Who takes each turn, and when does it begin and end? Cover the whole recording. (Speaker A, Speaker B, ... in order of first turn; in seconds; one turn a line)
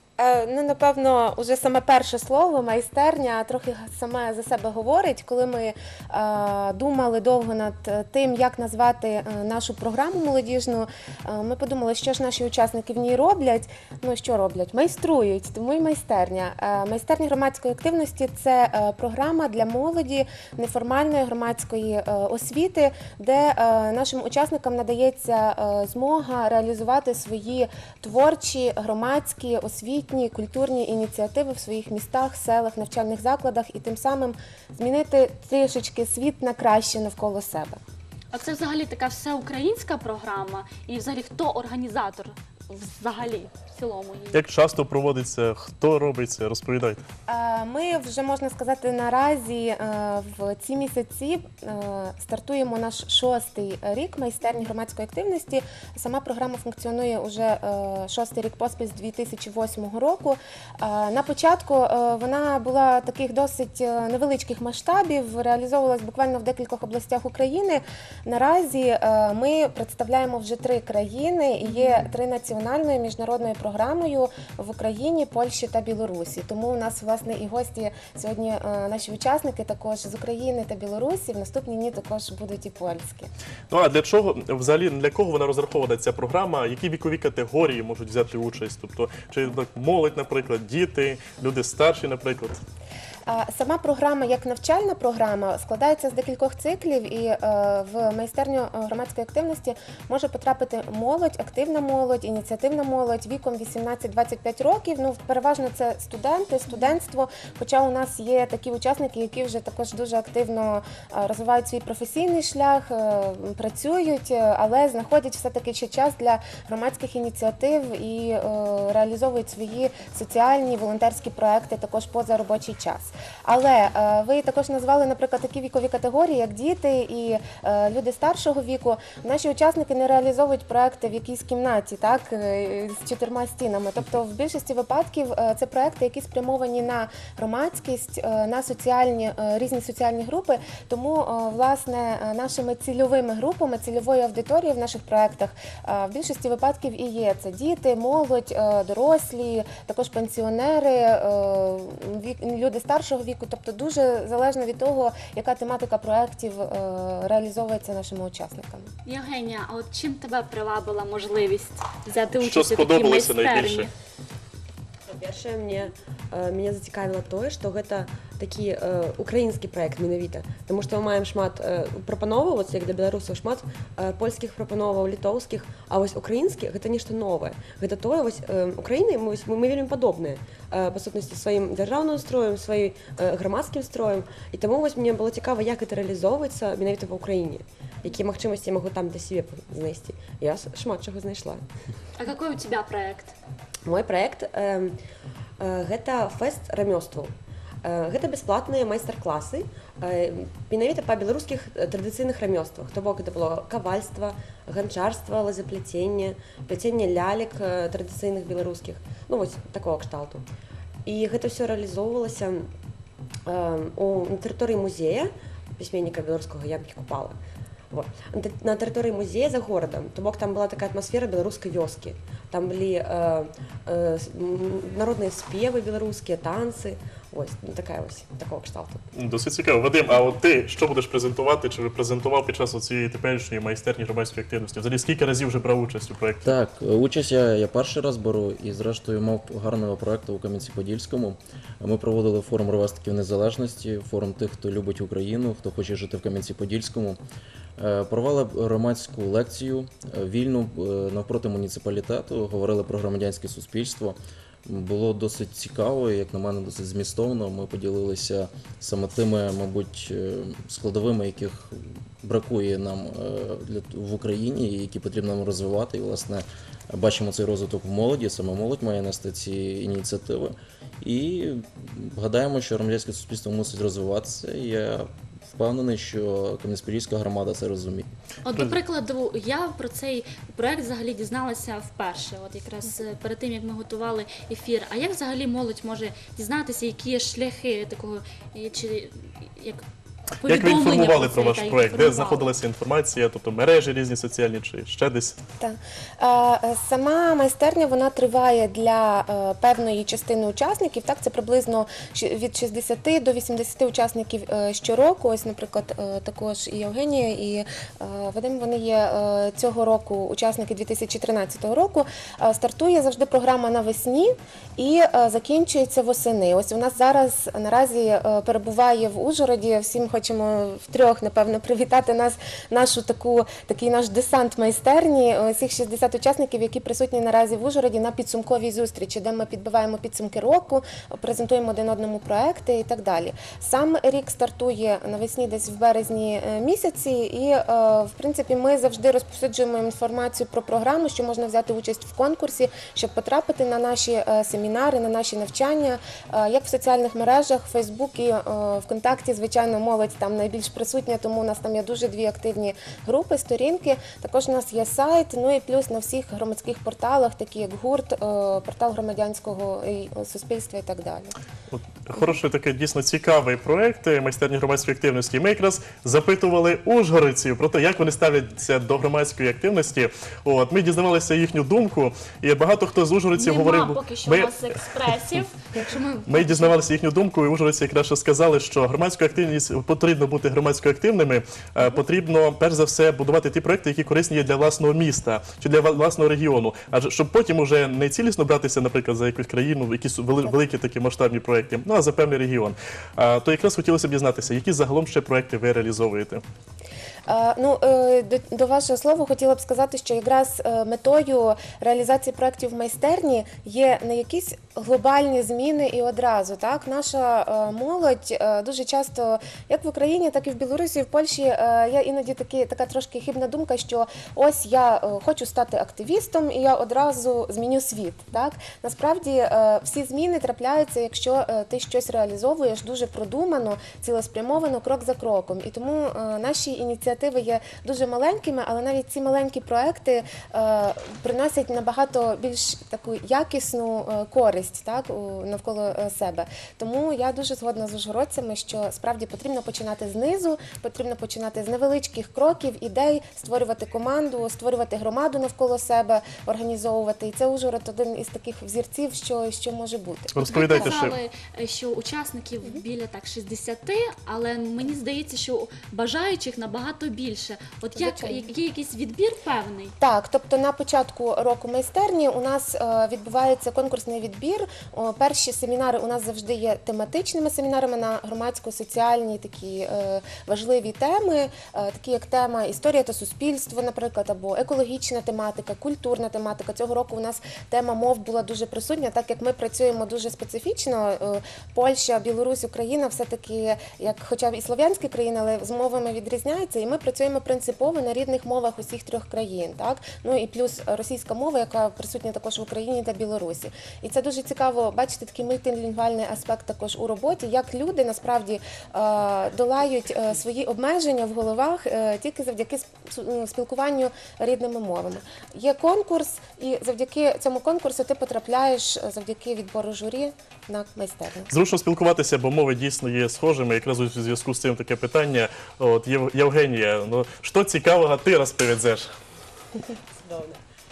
Speaker A: 0.2-37.8
Speaker B: 38.3-44.4
Speaker C: 44.3-47.0
Speaker A: 47.3-83.3
Speaker B: 71.7-72.0
Speaker C: 83.7-92.6
Speaker A: 93.3-158.9
Speaker B: 159.1-163.9
Speaker C: 162.4-163.9
Speaker D: 165.1-191.6
Speaker B: 192.2-193.3
Speaker D: 193.9-195.0
Speaker D: 195.6-210.5
Speaker D: 211.1-212.7
Speaker D: 213.5-217.4
Speaker D: 217.9-229.0
Speaker C: 229.2-236.5
Speaker E: 236.4-247.2
Speaker E: 247.8-278.1
Speaker B: 278.4-289.9
Speaker C: 278.5-278.8
Speaker B: 290.4-292.5
Speaker C: 290.4-295.4
Speaker A: 295.6-361.3
Speaker C: 361.7-374.8
Speaker B: 373.3-376.8
Speaker C: 376.3-396.4
Speaker A: 397.3-451.1
Speaker C: 450.3-451.2
Speaker B: 450.4-459.9
Speaker A: 458.0-458.4
Speaker A: 460.0-511.5
Speaker C: 511.5-519.1
Speaker D: 520.0-520.6